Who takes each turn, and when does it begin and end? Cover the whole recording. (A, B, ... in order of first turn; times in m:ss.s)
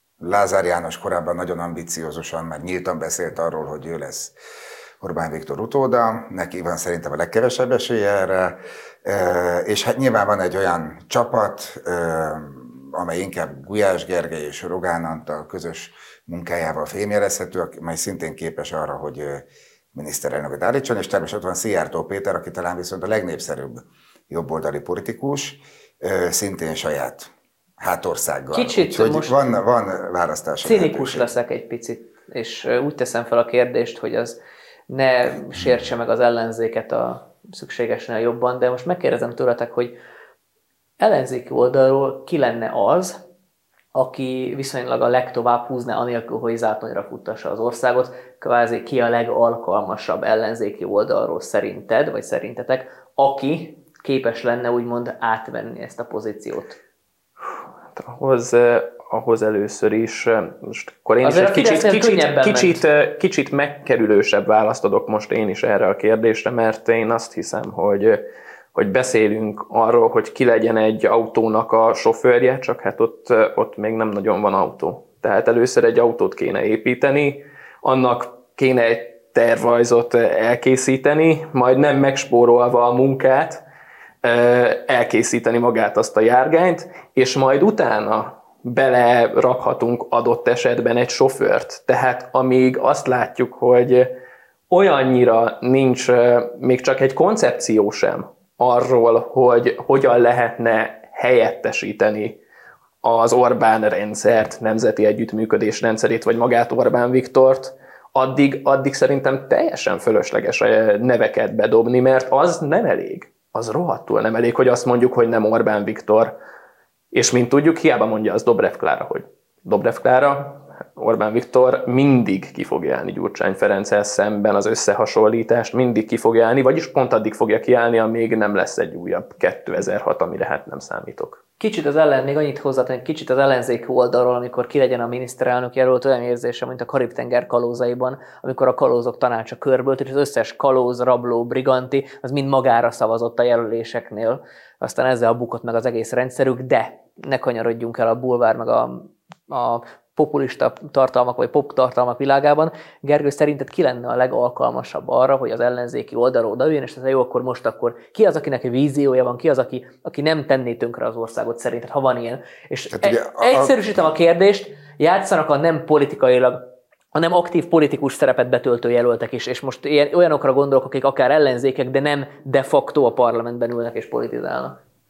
0:00.2-0:04.4 A
0:05.0-0:31.3 A
0:28.5-0:29.4 B
0:30.6-0:40.0 B
0:41.0-0:43.2 B
0:44.0-0:56.8 B
0:58.0-1:08.2 C
1:01.2-1:02.8 B
1:08.7-1:23.6 C
1:24.2-1:34.1 C
1:34.7-1:42.4 C
1:43.0-1:56.4 C
1:57.1-2:11.4 C
2:11.6-2:54.8 B
2:42.9-2:43.8 A